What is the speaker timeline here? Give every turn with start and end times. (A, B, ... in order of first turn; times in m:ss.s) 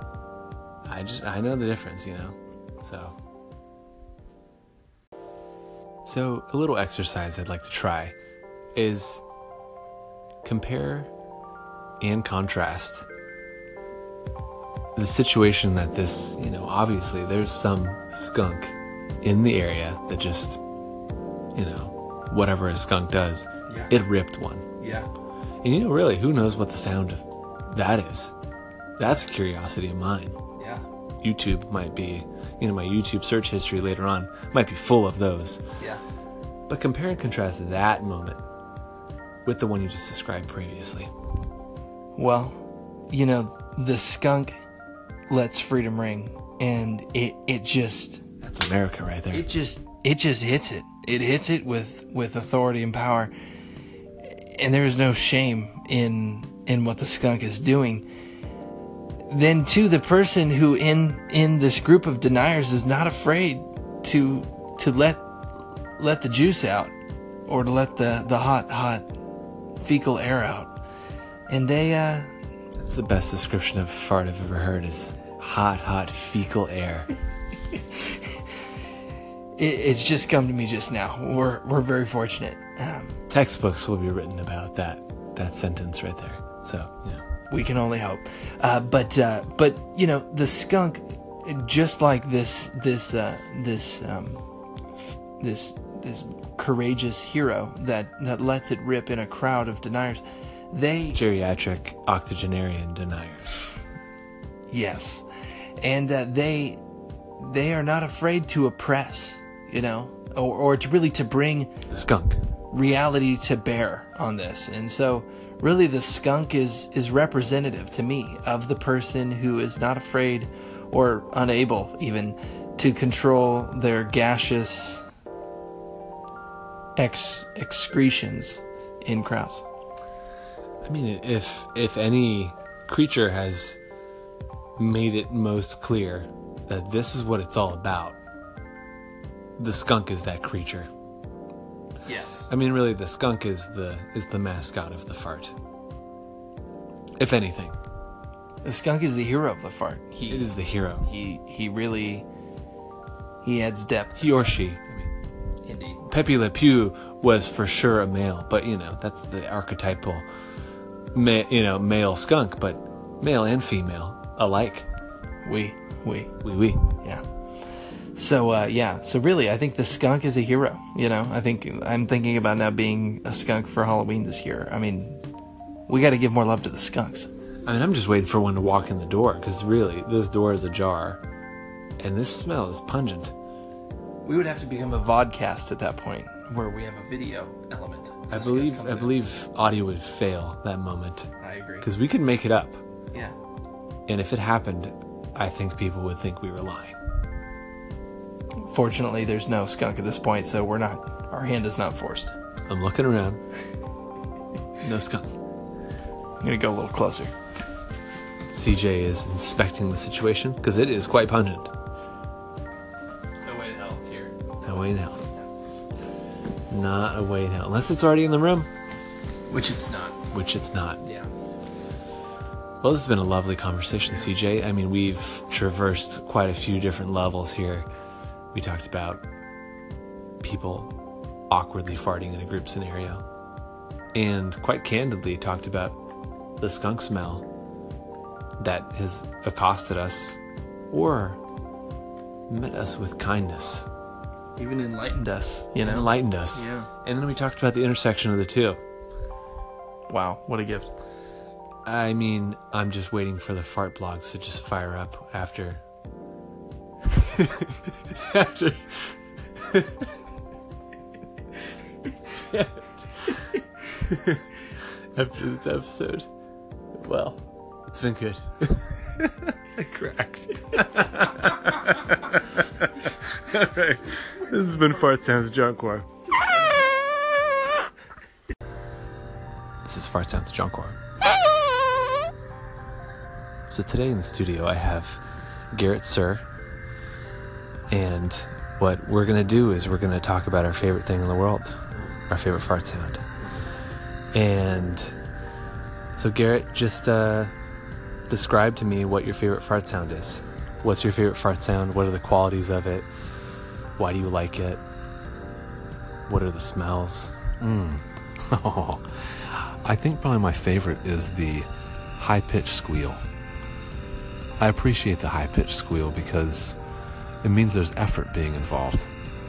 0:00.9-0:03.2 A
0:06.0-0:08.2 A
0:08.8-0:09.2 A
0:10.4-0:11.1 A
0:12.0-0:13.1 A
0:15.0-0:20.6 A
0:21.6-0:24.6 A
0:24.8-0:25.1 B
0:25.6-0:28.3 A
0:29.0-0:30.4 A
0:30.6-0:30.8 B
0:31.2-0:35.6 A
0:36.7-0:38.4 A
0:39.4-0:41.1 A
0:42.2-0:44.6 B
0:45.3-0:48.2 B
0:48.4-0:49.5 A
0:49.3-0:53.3 B
0:54.2-0:58.1 B
0:59.3-1:05.2 B
1:06.0-1:07.0 B
1:07.5-1:09.1 B
1:09.8-1:10.7 B
1:11.5-1:12.3 B
1:12.8-1:17.1 A
1:17.9-1:18.3 B
1:19.6-1:23.2 B
1:23.3-1:27.2 A
1:27.5-1:34.4 B
1:35.4-1:41.2 B
1:41.1-1:43.6 A
1:44.7-1:45.3 B
1:45.8-1:46.8 B
1:47.4-1:51.8 B
1:51.9-1:52.4 A
1:52.7-2:05.0 B
2:07.0-2:09.6 B
2:10.8-2:13.8 A
2:14.8-2:18.2 A
2:19.6-2:20.9 A
2:22.1-2:22.5 B
2:22.5-2:25.5 A
2:27.2-2:27.8 A
2:28.6-2:32.3 B
2:30.3-2:31.1 A
2:33.4-2:34.2 B
2:34.2-2:35.1 A
2:35.6-2:36.0 B
2:36.1-2:40.3 A
2:41.1-2:44.9 A
2:45.4-2:46.4 B
2:46.4-2:46.9 A
2:48.2-2:55.2 B
2:55.9-2:57.3 B
2:57.7-3:01.2 A
3:02.0-3:03.3 A
3:04.2-3:09.2 B
3:08.3-3:11.3 A
3:11.4-3:11.9 B
3:11.8-3:12.8 A
3:14.1-3:17.0 A
3:18.6-3:22.4 B
3:22.7-3:23.4 A
3:24.8-3:25.3 A
3:26.4-3:27.3 B
3:28.5-3:31.7 A
3:33.4-3:35.5 B
3:34.7-3:35.2 A
3:36.7-3:38.7 A
3:39.5-3:40.2 B
3:40.3-3:41.0 A
3:41.0-3:41.3 B
3:42.8-3:47.9 A
3:44.1-3:44.3 B
3:48.5-3:49.2 A
3:50.4-3:50.9 A
3:51.5-3:53.2 A
3:54.1-3:56.0 A
3:56.6-3:57.4 A
3:58.6-4:00.4 A
4:00.9-4:01.4 A
4:02.5-4:03.9 A
4:04.6-4:06.9 B
4:05.8-4:08.8 A
4:10.1-4:10.9 B
4:11.8-4:15.8 A
4:17.0-4:19.0 A
4:19.6-4:20.0 A
4:22.4-4:23.3 A
4:24.0-4:24.5 A
4:25.2-4:26.3 A
4:27.0-4:29.3 A
4:29.8-4:30.8 B
4:29.9-4:36.2 A
4:39.8-4:41.0 A
4:43.7-4:46.4 A
4:47.9-4:51.8 A
4:52.3-4:53.2 A
4:54.3-4:55.2 A
4:56.2-4:57.5 A
4:58.3-5:03.1 A
5:04.0-5:04.8 A
5:06.3-5:07.4 A
5:07.6-5:13.2 C
5:14.6-5:16.8 C
5:17.4-5:19.1 C